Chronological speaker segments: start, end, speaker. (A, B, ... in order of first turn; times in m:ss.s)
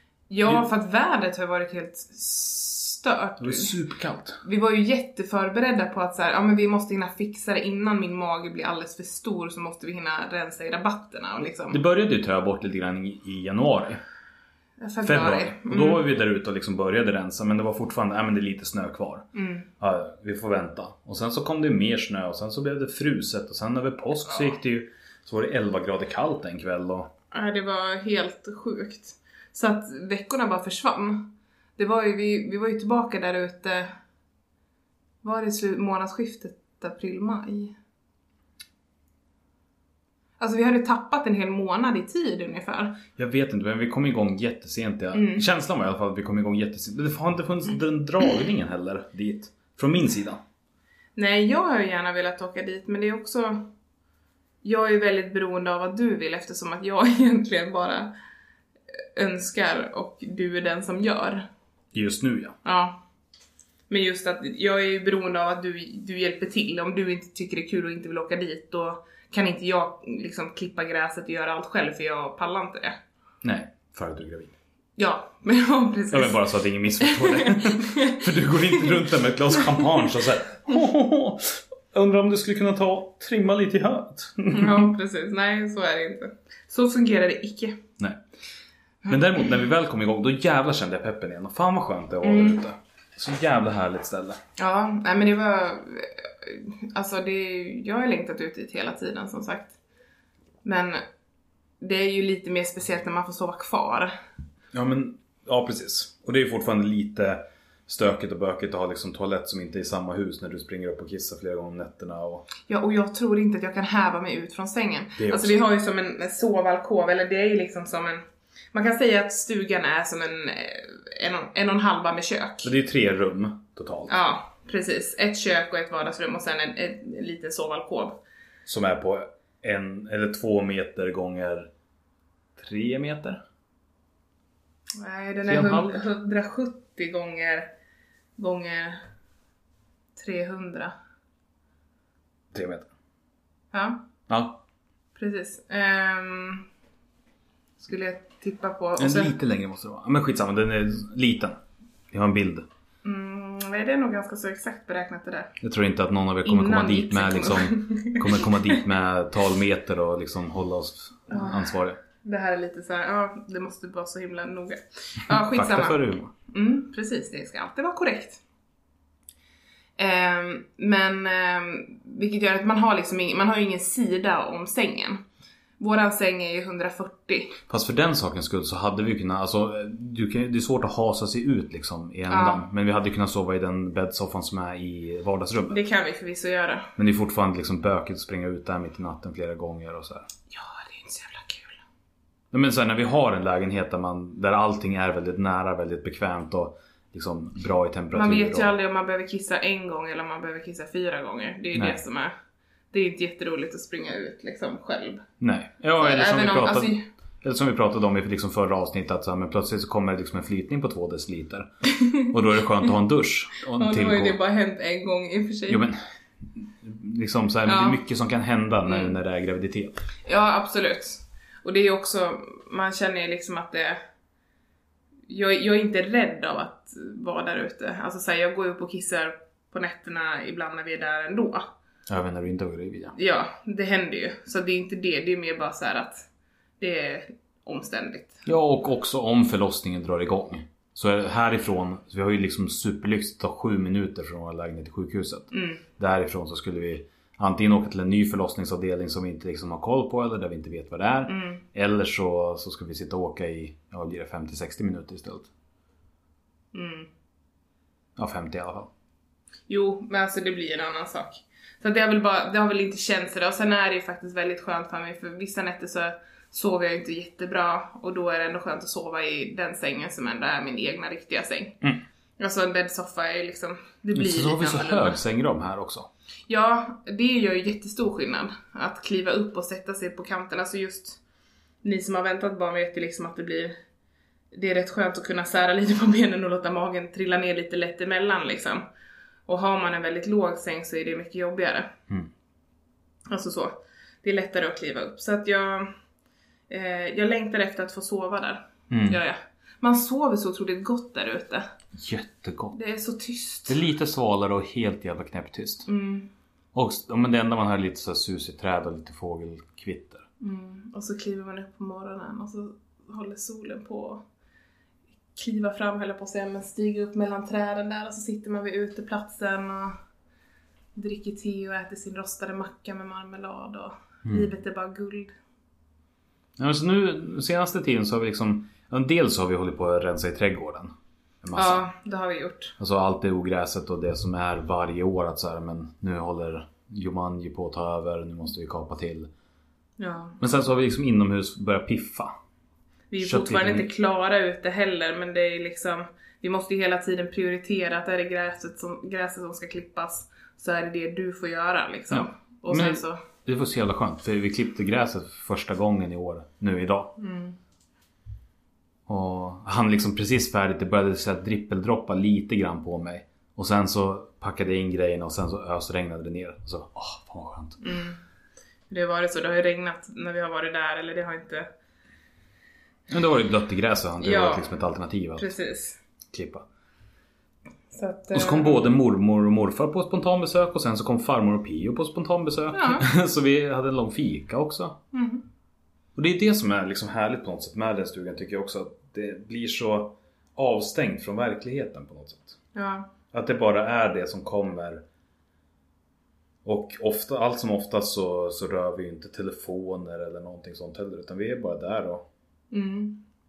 0:00.3-0:03.8 A
0:03.4-0:04.4 B
0:04.4-0:11.8 A
0:11.7-0:14.0 B
0:14.8-0:16.0 A
0:15.0-0:19.3 B
0:19.3-0:19.7 A
0:19.8-0:27.1 B
0:27.3-0:33.9 A
0:35.2-0:37.7 A
0:40.4-0:43.0 A
0:43.2-0:50.4 B
0:45.1-0:45.4 A
0:51.2-0:53.7 A
0:54.6-0:58.1 A
0:58.9-1:01.5 A
1:01.9-1:02.6 B
1:02.6-1:03.0 A
1:03.9-1:13.0 A
1:13.4-1:14.5 B
1:15.0-1:16.4 A
1:16.1-1:24.9 B
1:17.0-1:19.0 A
1:24.5-1:27.8 A
1:29.0-1:34.4 B
1:32.2-1:32.6 A
1:34.6-1:39.7 A
1:40.6-1:41.0 A
1:41.8-1:44.1 A
1:44.7-1:52.5 B
1:52.6-1:58.2 A
1:55.2-1:55.6 B
1:58.7-2:02.7 A
2:02.6-2:04.2 B
2:04.1-2:08.2 A
2:08.7-2:11.7 B
2:12.6-2:13.4 B
2:15.0-2:17.7 A
2:15.4-2:16.1 B
2:18.4-2:19.0 A
2:20.2-2:21.0 A
2:22.5-2:22.9 B
2:23.7-2:24.0 A
2:24.3-2:24.6 B
2:25.2-2:26.7 A
2:27.8-2:29.3 A
2:29.0-2:31.6 B
2:32.1-2:32.7 B
2:33.0-2:35.6 A
2:35.6-2:42.0 B
2:36.4-2:38.8 A
2:41.3-2:48.4 A
2:45.3-2:46.3 B
2:50.0-2:55.2 A
2:55.8-2:57.6 A
2:57.7-3:05.8 B
3:02.3-3:02.6 A
3:05.7-3:06.9 A
3:07.0-3:10.3 B
3:10.5-3:11.8 A
3:12.5-3:18.7 B
3:18.1-3:22.3 A
3:21.7-3:22.0 B
3:22.9-3:25.2 A
3:25.4-3:34.4 B
3:26.0-3:27.1 A
3:32.0-3:32.2 A
3:33.7-3:35.8 A
3:35.7-3:36.0 B
3:36.5-3:40.0 B
3:37.6-3:38.0 A
3:38.9-3:39.2 A
3:40.2-3:44.0 A
3:45.3-3:51.7 A
3:52.1-3:53.2 B
3:53.2-3:56.3 A
3:56.8-3:58.4 A
3:58.4-4:15.5 B
4:05.5-4:05.8 A
4:11.3-4:11.6 A
4:16.7-4:17.1 A
4:18.2-4:18.9 B
4:19.7-4:31.8 A
4:32.4-4:35.2 A
4:34.1-4:36.1 B
4:36.5-4:41.2 A
4:41.8-4:43.8 A
4:44.5-4:48.8 A
4:49.5-4:51.9 A
4:53.3-4:55.9 A
4:56.7-5:01.6 A
4:58.9-4:59.2 B
5:02.0-5:02.8 B
5:02.7-5:03.8 A
5:03.7-5:05.9 B
5:05.9-5:06.3 A
5:06.7-5:10.3 B
5:10.4-5:14.2 A
5:15.4-5:20.0 A
5:21.0-5:25.4 A
5:26.6-5:31.8 B
5:31.5-5:32.7 A
5:32.8-5:39.3 B
5:40.0-5:40.4 A
5:40.4-5:42.3 B
5:43.1-5:53.2 A
5:43.2-5:43.9 B
5:52.1-5:57.2 B
5:57.2-5:57.6 A
5:59.1-6:07.8 B
6:07.8-6:08.2 A
6:08.9-6:11.7 A
6:13.1-6:15.5 B
6:14.2-6:14.7 A
6:15.4-6:16.0 A
6:16.3-6:16.6 B
6:17.9-6:18.8 A
6:18.3-6:25.0 B
6:22.7-6:23.1 A
6:25.1-6:25.4 A
6:26.2-6:32.6 B
6:32.7-6:33.1 A
6:33.3-6:35.0 B
6:36.6-6:42.3 B
6:42.7-6:43.2 A